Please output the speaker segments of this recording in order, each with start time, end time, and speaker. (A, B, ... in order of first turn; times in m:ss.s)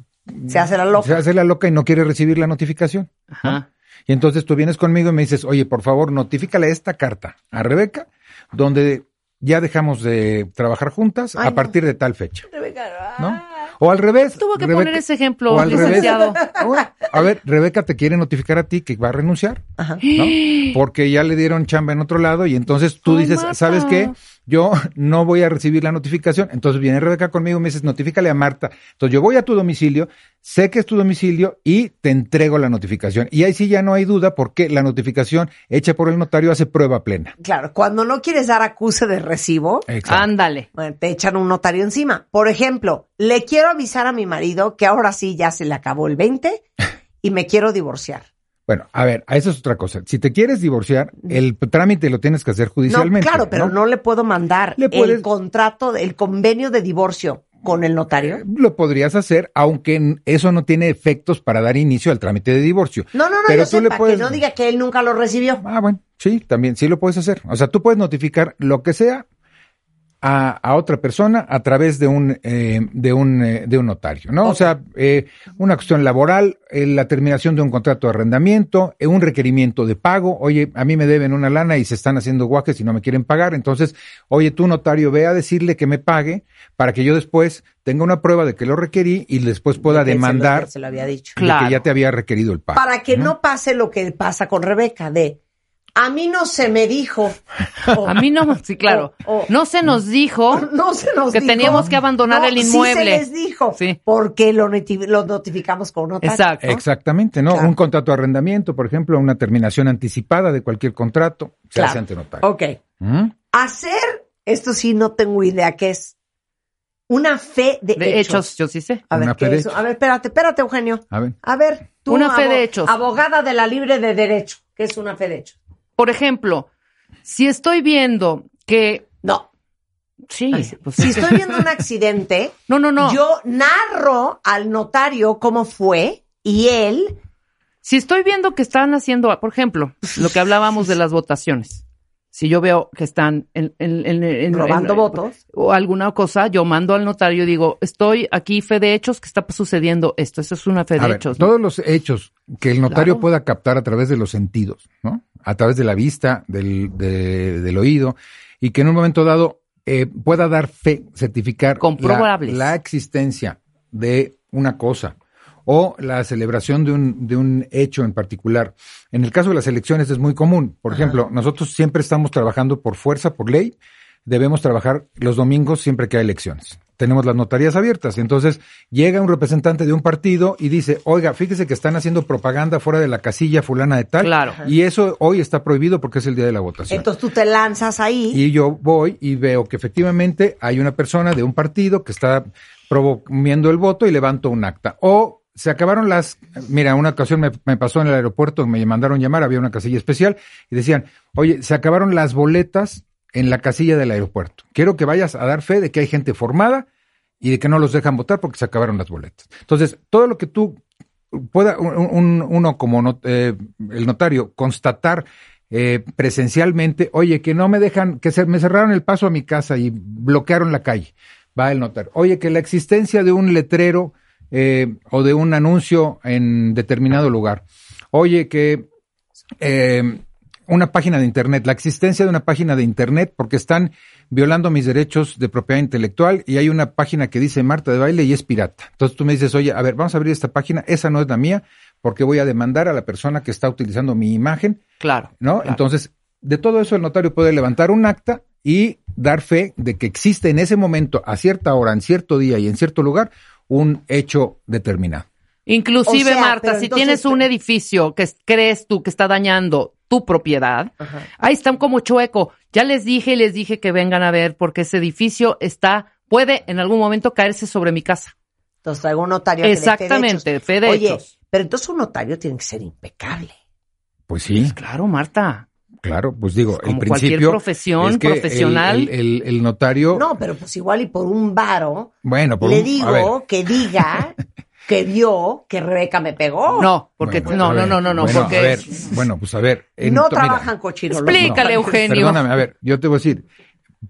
0:00.3-0:12.5 A
0:00.5-0:01.2 B
0:03.3-0:03.6 C
0:11.4-0:11.7 B
0:12.5-0:13.4 B
0:13.2-0:37.4 A
0:14.4-0:16.4 C
0:15.6-0:16.7 B
0:20.0-0:20.8 C
0:23.1-0:24.1 C
0:37.4-0:39.9 B
0:39.9-0:40.3 A
0:40.1-0:40.7 C
0:40.8-0:46.6 B
0:47.2-0:48.3 B
0:48.7-0:53.7 A
0:52.9-0:58.4 B
0:54.8-0:55.3 A
0:58.2-1:04.4 A
1:03.1-1:05.6 B
1:05.6-1:09.2 A
1:10.2-1:30.7 A
1:14.4-1:14.7 B
1:29.8-1:31.4 B
1:31.4-1:33.3 A
1:31.4-1:31.8 C
1:32.7-1:35.4 B
1:36.0-1:38.2 B
1:38.0-1:40.7 C
1:38.8-1:39.5 B
1:40.5-1:46.4 B
1:41.3-1:43.2 C
1:46.2-1:46.8 C
1:46.6-1:52.4 A
1:51.8-1:52.8 B
1:53.0-1:53.3 A
1:53.5-1:56.1 B
1:57.1-1:58.5 B
1:58.0-1:59.0 C
1:59.1-2:05.6 B
1:59.1-1:59.7 A
2:01.1-2:01.4 A
2:02.1-2:02.9 C
2:06.0-2:06.7 C
2:07.2-2:09.1 C
2:10.3-2:11.6 C
2:10.5-2:17.2 B
2:12.7-2:13.2 C
2:17.8-2:21.8 C
2:22.3-2:31.5 C
2:24.5-2:25.4 B
2:31.0-3:07.1 A
2:32.9-2:33.2 C
2:41.8-2:42.7 C
3:04.2-3:04.6 C
3:06.9-3:08.4 B
3:08.3-3:26.9 A
3:27.4-3:30.8 A
3:31.3-3:48.9 A
3:49.6-4:04.8 A
4:05.0-4:05.8 C
4:05.4-4:15.3 A
4:15.7-4:28.3 C
4:16.1-4:17.4 B
4:28.8-4:33.6 B
4:29.6-4:31.3 C
4:34.3-4:34.8 A
4:34.6-4:35.6 C
4:36.0-4:40.3 A
4:36.8-4:39.1 C
4:40.1-4:46.9 B
4:42.2-4:43.3 A
4:46.8-4:49.0 C
4:47.2-4:50.7 A
4:50.0-4:52.1 B
4:51.1-4:52.5 C
4:51.4-4:53.4 A